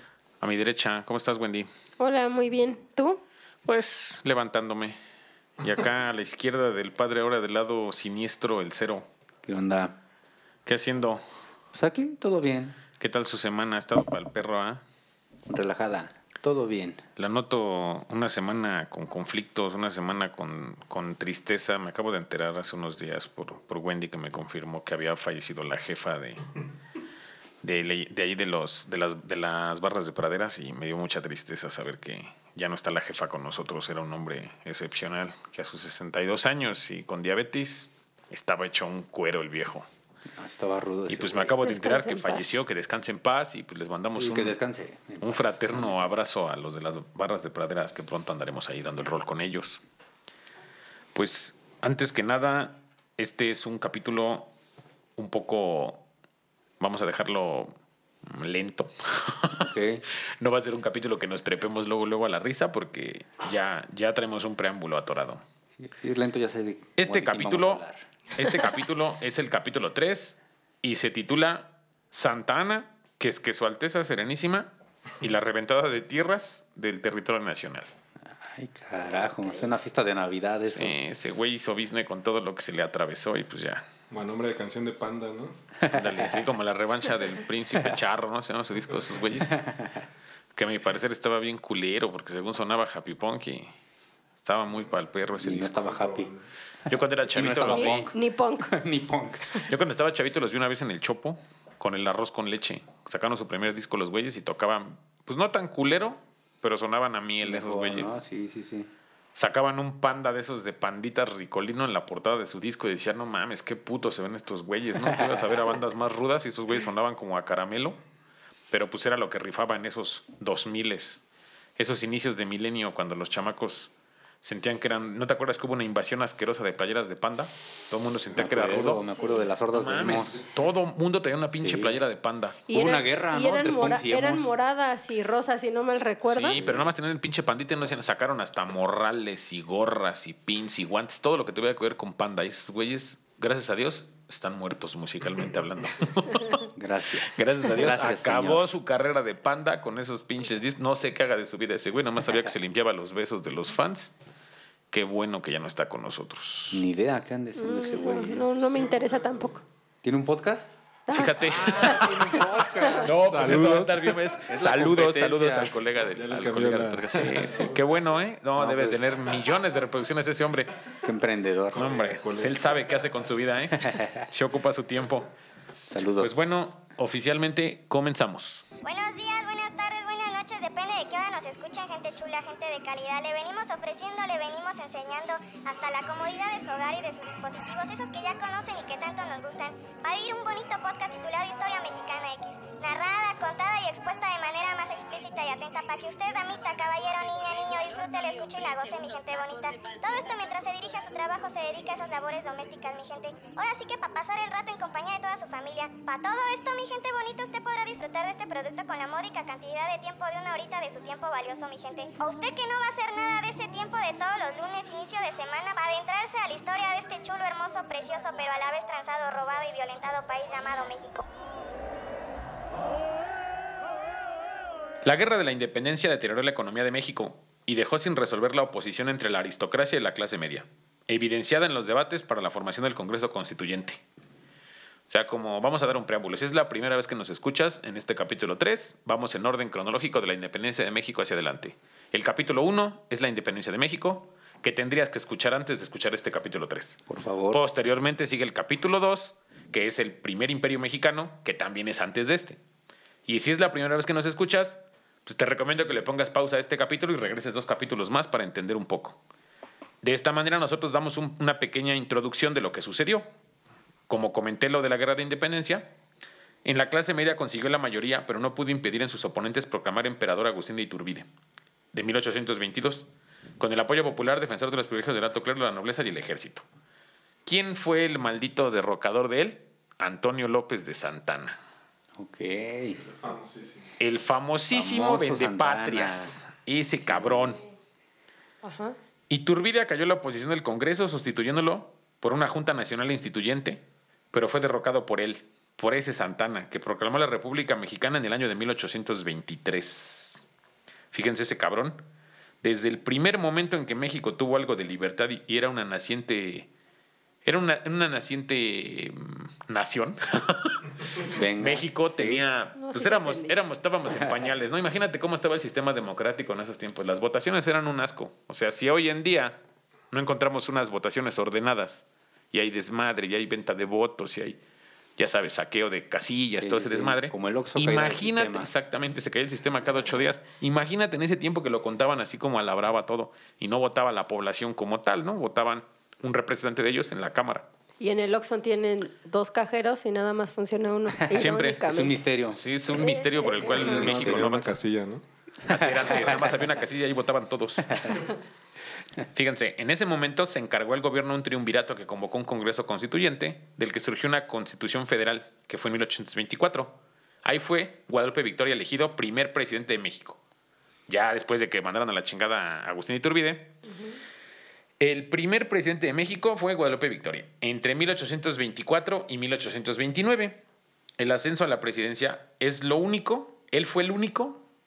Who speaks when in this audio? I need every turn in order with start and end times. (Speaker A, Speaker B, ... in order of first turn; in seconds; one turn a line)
Speaker A: 0.4-1.7
Speaker B: 2.0-3.2
Speaker A: 3.6-5.0
Speaker A: 5.6-9.1
Speaker C: 9.4-10.0
Speaker A: 10.7-11.2
Speaker C: 11.7-12.8
Speaker A: 13.0-14.8
Speaker C: 15.5-17.0
Speaker A: 17.2-26.5
Speaker A: 27.6-39.9
Speaker C: 40.3-41.6
Speaker A: 41.1-44.6
Speaker B: 41.6-42.5
Speaker C: 44.1-46.0
Speaker A: 45.2-49.8
Speaker A: 51.1-54.5
Speaker A: 55.2-56.0
Speaker A: 56.8-57.7
Speaker A: 58.3-59.7
Speaker C: 59.5-60.0
Speaker A: 60.4-65.4
Speaker C: 65.8-68.0
Speaker A: 67.0-77.9
Speaker C: 78.4-81.0
Speaker A: 80.7-83.9
Speaker D: 84.1-85.6
Speaker C: 85.8-86.5
Speaker A: 85.9-89.6
Speaker C: 89.5-90.0
Speaker A: 90.5-93.7
Speaker A: 94.4-95.8
Speaker C: 95.4-96.3
Speaker D: 95.6-96.5
Speaker A: 96.9-98.1
Speaker C: 97.3-99.6
Speaker B: 97.7-98.7
Speaker A: 99.7-108.2
Speaker C: 107.4-108.9
Speaker A: 109.3-118.0
Speaker C: 115.0-115.6
Speaker A: 118.7-121.2
Speaker A: 121.8-123.9
Speaker A: 124.4-129.1
Speaker C: 128.3-130.5
Speaker A: 129.7-132.6
Speaker D: 130.1-130.3
Speaker C: 131.5-132.0
Speaker C: 132.7-134.5
Speaker B: 132.7-136.6
Speaker A: 136.3-146.7
Speaker C: 136.6-136.9
Speaker C: 146.7-148.6
Speaker A: 147.3-154.1
Speaker A: 154.9-156.8
Speaker C: 156.7-158.5
Speaker B: 157.6-159.6
Speaker C: 160.0-160.7
Speaker B: 161.1-162.1
Speaker A: 161.1-170.8
Speaker C: 161.6-163.8
Speaker D: 163.2-164.2
Speaker C: 164.5-165.7
Speaker D: 166.2-167.8
Speaker C: 168.6-169.2
Speaker C: 171.0-171.9
Speaker A: 171.7-175.3
Speaker D: 171.7-172.7
Speaker C: 173.9-174.2
Speaker C: 175.9-176.3
Speaker A: 176.2-178.7
Speaker E: 178.8-221.2
Speaker A: 225.0-234.0
Speaker A: 235.1-247.0
Speaker C: 247.1-247.6
Speaker A: 247.5-252.6
Speaker A: 253.3-259.2
Speaker A: 260.0-263.3
Speaker A: 264.1-265.9
Speaker A: 266.6-271.3
Speaker A: 271.9-273.1
Speaker A: 273.6-276.6
Speaker A: 277.5-281.6
Speaker C: 282.2-283.0
Speaker D: 283.1-283.9
Speaker A: 284.0-287.6
Speaker C: 284.7-286.4
Speaker C: 287.0-287.6
Speaker B: 288.6-289.0
Speaker A: 289.3-300.4
Speaker A: 301.1-302.0
Speaker A: 302.6-306.7
Speaker A: 307.4-319.6
Speaker C: 311.2-312.4
Speaker B: 312.8-313.6
Speaker C: 314.1-314.5
Speaker A: 320.1-324.6
Speaker A: 325.2-337.7
Speaker C: 326.6-328.7
Speaker B: 338.0-342.2
Speaker A: 341.3-341.9
Speaker C: 341.3-342.6
Speaker A: 342.5-344.8
Speaker B: 343.0-343.8
Speaker D: 343.6-345.2
Speaker C: 343.6-344.6
Speaker A: 345.6-348.2
Speaker C: 345.7-346.5
Speaker A: 349.3-360.4
Speaker A: 361.1-363.8
Speaker A: 365.0-370.6
Speaker A: 371.2-374.6